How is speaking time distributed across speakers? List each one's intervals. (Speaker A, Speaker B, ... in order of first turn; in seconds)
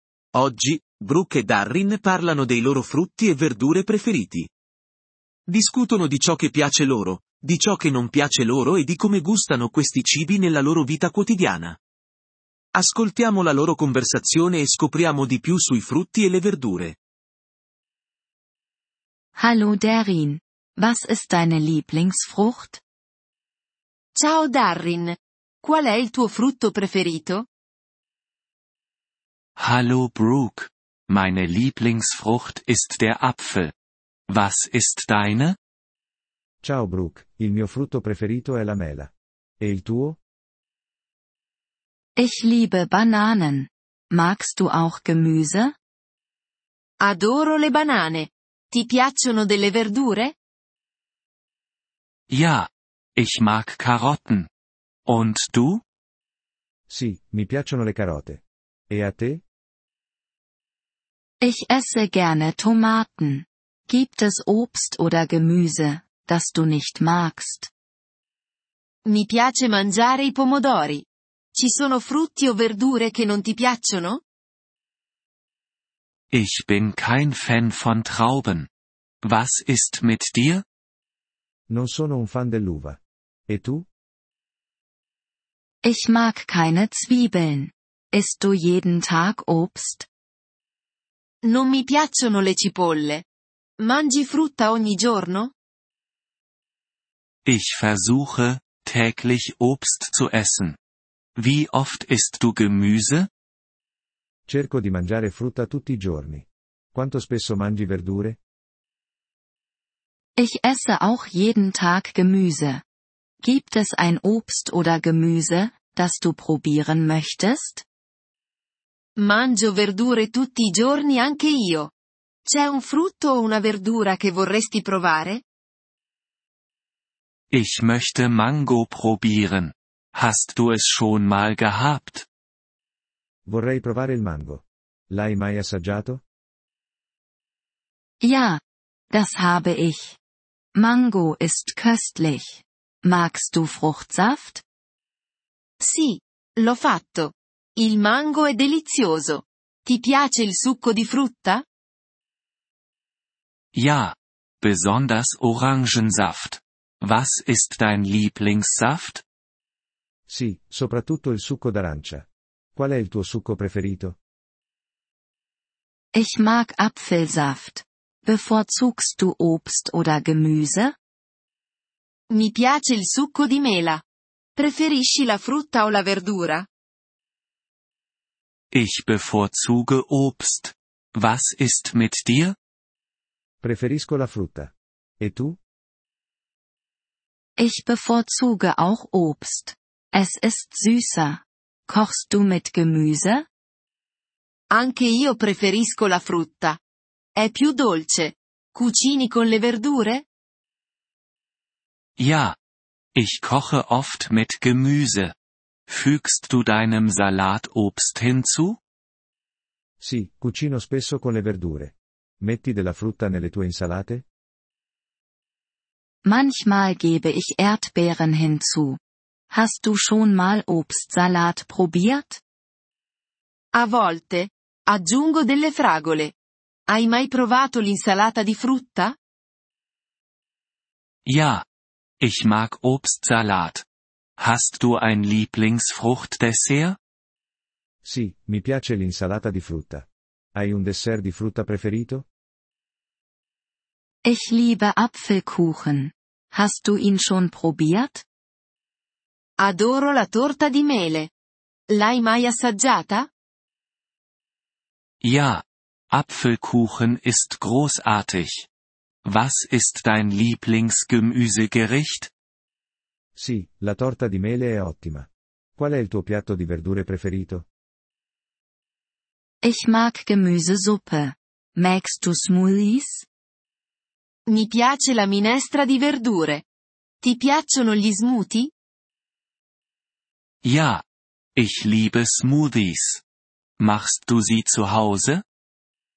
Speaker A: 0.3-4.5, 5.5-11.8, 12.8-17.0
Speaker B: 19.4-22.8, 42.2-45.8, 61.4-67.7, 85.8-90.1, 110.4-112.8, 113.4-117.8, 138.2-140.2, 140.8-144.6, 166.1-170.9, 187.6-193.5, 216.2-219.0, 219.5-222.4, 244.2-248.2, 269.6-273.3
Speaker C: 24.1-27.5, 47.0-50.4, 69.0-74.2, 91.4-93.2, 93.8-95.5, 119.2-121.9, 122.5-125.4, 145.8-151.6, 172.3-174.0, 174.6-176.7, 194.7-196.8, 197.4-200.2, 223.7-226.3, 226.9-229.2, 249.6-251.3, 251.9-253.3, 274.5-276.6, 277.2-278.7
Speaker D: 29.6-33.7, 34.3-35.6, 52.3-54.5, 55.1-55.8, 76.3-78.7, 79.2-80.6, 97.5-100.8, 101.4-103.3, 127.5-132.3, 153.7-159.2, 178.7-182.6, 202.2-202.6, 203.2-205.3, 205.9-208.8, 231.3-231.6, 232.2-233.8, 234.4-237.0, 255.2-258.7, 259.2-262.3, 280.6-281.0, 281.6-283.2, 283.8-285.4
Speaker E: 36.6-40.2, 56.9-59.4, 81.7-83.9, 104.5-108.4, 133.5-136.2, 160.3-164.2, 183.6-185.6, 210.0-214.2, 238.0-242.3, 263.4-267.7